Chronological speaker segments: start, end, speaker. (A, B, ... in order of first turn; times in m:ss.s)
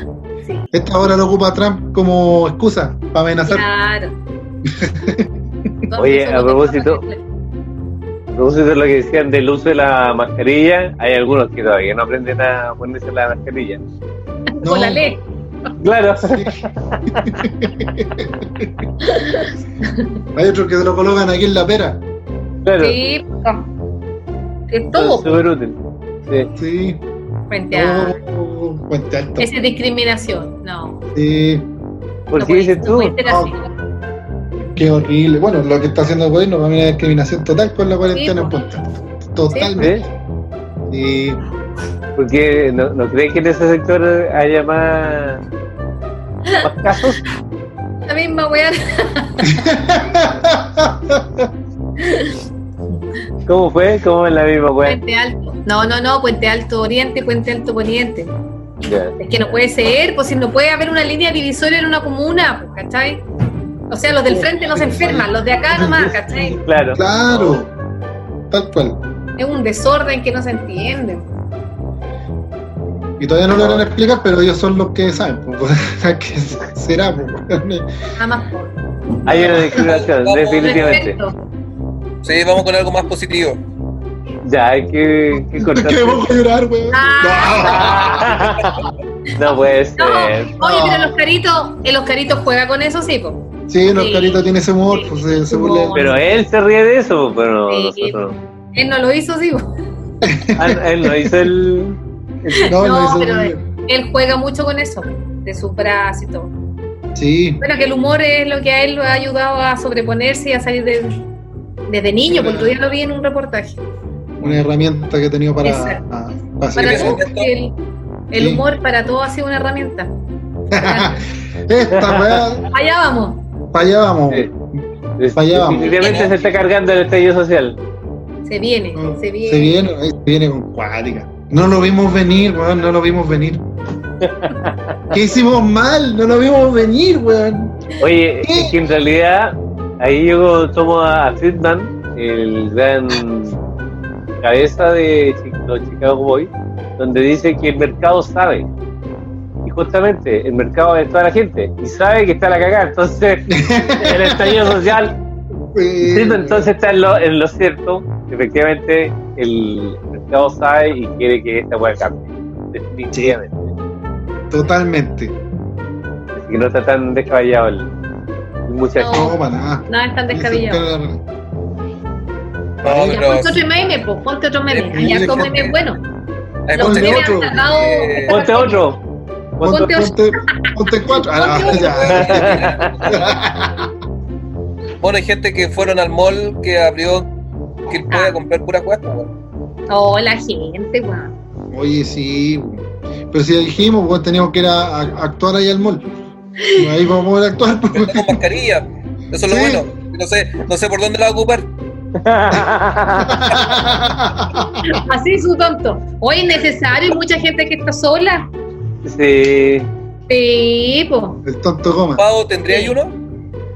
0:00.4-0:00.7 A
0:00.7-0:03.7 B
0:03.5-0:04.2 A
0:04.6-0:05.3 B
0:05.8-0:07.2 A
0:06.0-0:07.0 C
0:08.3-0:13.8 C
0:14.6-0:15.7 A
0:14.6-0:15.1 B
0:15.8-0:17.3 C
0:16.2-0:16.6 B
0:17.2-0:18.7 B
0:19.0-0:20.1 A
0:20.3-0:22.0 B
0:22.6-0:23.0 C
0:22.8-0:23.7 A
0:24.7-0:25.4 A
0:24.9-0:25.8 C
0:26.6-0:27.0 B
0:27.5-0:28.2 A
0:27.7-0:29.5 B
0:29.4-0:31.0 A
0:31.1-0:31.7 B
0:32.3-0:33.2 C
0:32.4-0:33.6 A
0:33.2-0:33.5 B
0:34.6-0:40.0 B
0:38.1-0:38.6 A
0:39.5-0:39.9 A
0:39.8-0:40.0 C
0:40.9-0:41.4 B
0:42.2-0:45.4 C
0:46.6-0:47.2 C
0:48.1-0:49.7 A
0:49.4-0:51.5 B
0:52.0-0:52.4 A
0:53.4-0:55.0 C
0:54.8-0:58.3 A
0:58.8-0:59.2 C
0:59.2-1:03.2 A
1:03.9-1:06.6 A
1:04.3-1:06.4 B
1:06.6-1:07.6 C
1:06.9-1:07.7 B
1:08.5-1:09.0 B
1:09.4-1:11.3 A
1:13.2-1:17.9 B
1:13.6-1:13.8 C
1:18.2-1:18.8 A
1:19.2-1:19.9 B
1:19.2-1:21.2 C
1:19.8-1:21.0 D
1:20.6-1:21.4 A
1:22.2-1:23.6 D
1:24.4-1:26.3 C
1:25.4-1:28.4 B
1:26.9-1:28.1 A
1:27.5-1:28.8 C
1:29.4-1:30.5 C
1:30.0-1:36.2 A
1:30.6-1:31.1 B
1:33.7-1:36.1 B
1:35.9-1:38.4 C
1:37.7-1:38.2 A
1:38.7-1:39.7 A
1:40.2-1:41.4 B
1:40.6-1:42.7 C
1:42.6-1:46.5 A
1:42.6-1:43.6 B
1:47.1-1:47.6 B
1:47.6-1:51.2 A
1:51.9-1:53.8 A
1:52.3-1:52.8 B
1:54.4-1:57.2 B
1:55.6-1:56.0 A
1:56.7-1:57.7 A
1:56.8-1:57.5 D
1:58.3-2:00.1 A
1:58.3-1:58.6 B
2:00.7-2:02.7 B
2:00.8-2:01.2 A
2:01.9-2:02.4 C
2:02.7-2:03.4 A
2:03.7-2:04.8 B
2:05.2-2:07.8 C
2:05.3-2:06.0 B
2:05.9-2:06.3 D
2:08.4-2:09.8 A
2:08.9-2:13.6 B
2:14.2-2:14.8 C
2:15.1-2:17.8 B
2:18.0-2:23.6 C
2:18.4-2:18.8 B
2:24.4-2:28.7 C
2:29.6-2:35.2 C
2:33.5-2:35.0 B
2:35.7-2:36.7 B
2:36.0-2:43.6 C
2:43.1-2:43.4 B
2:44.5-2:45.4 B
2:46.3-2:47.9 C
2:48.7-2:49.3 C
2:49.0-2:49.4 A
2:49.1-2:51.2 B
2:49.9-2:50.8 A
2:52.8-2:53.6 D
2:52.8-2:53.2 B
2:53.0-2:56.0 A
2:54.7-2:55.8 D
2:54.9-2:55.7 B
2:56.7-2:58.3 D
2:56.7-2:58.1 B
2:56.7-2:58.9 A
2:58.3-2:59.0 C
2:59.6-2:59.9 C
2:59.6-3:03.9 B
2:59.6-3:01.9 A
3:01.4-3:03.3 D
3:02.0-3:03.0 C
3:05.0-3:07.3 D
3:07.9-3:09.3 D
3:08.1-3:08.4 A
3:09.9-3:11.3 A
3:11.7-3:16.1 B
3:16.6-3:16.9 A
3:16.7-3:18.4 B
3:17.9-3:21.7 D
3:19.4-3:19.8 B
3:22.2-3:23.4 C
3:23.2-3:24.8 B
3:24.8-3:28.5 A
3:29.0-3:29.9 C
3:30.3-3:31.4 A
3:31.4-3:32.2 B
3:32.2-3:33.1 D
3:32.7-3:33.0 A